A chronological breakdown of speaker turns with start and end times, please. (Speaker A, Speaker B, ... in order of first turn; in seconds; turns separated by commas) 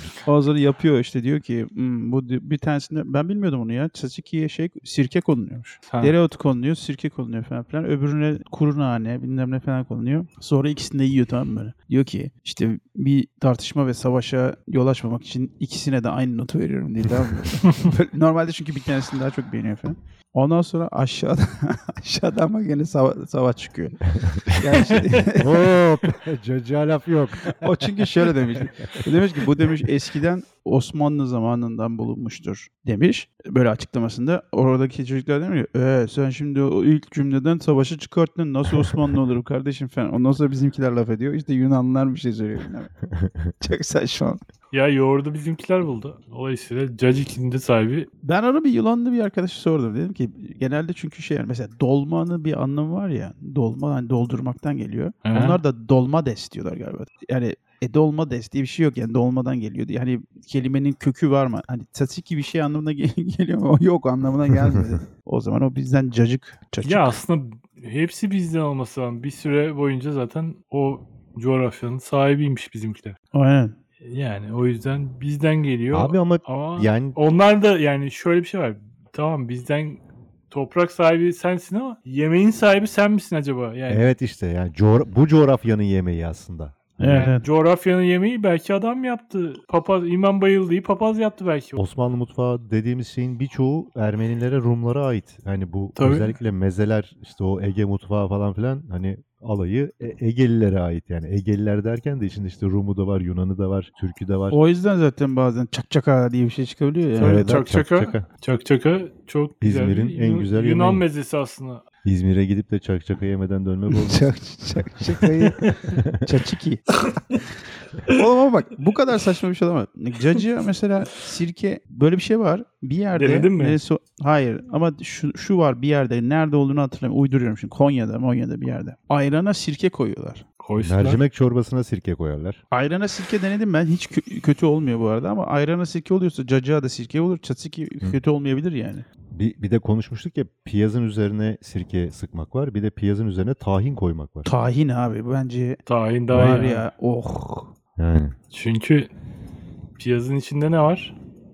Speaker A: 0.2-25.6, Speaker B: 5.9-6.2, Speaker C: 25.4-28.1, Speaker A: 27.5-42.9, Speaker C: 28.8-29.6, Speaker A: 43.6-44.4, Speaker B: 44.7-48.1, Speaker A: 48.2-67.2, Speaker B: 55.2-55.6, Speaker B: 66.8-73.2, Speaker A: 73.3-73.8, Speaker B: 74.0-84.1, Speaker C: 75.9-77.2, Speaker C: 83.9-87.3, Speaker A: 87.0-87.5, Speaker B: 87.1-91.8, Speaker C: 91.8-104.6, Speaker B: 96.0-96.4, Speaker A: 104.5-107.7, Speaker C: 107.2-108.2, Speaker B: 107.2-111.8, Speaker C: 109.6-111.1, Speaker C: 112.0-114.3, Speaker A: 113.9-115.5, Speaker C: 114.9-116.1, Speaker A: 116.2-116.9, Speaker A: 118.1-130.4, Speaker B: 123.1-123.8, Speaker B: 130.6-131.2, Speaker C: 130.8-132.6, Speaker A: 132.7-139.1, Speaker C: 139.3-144.5, Speaker A: 144.4-145.8, Speaker B: 145.9-146.9, Speaker A: 146.3-147.7, Speaker C: 148.0-148.3, Speaker B: 148.5-149.1, Speaker B: 150.0-151.2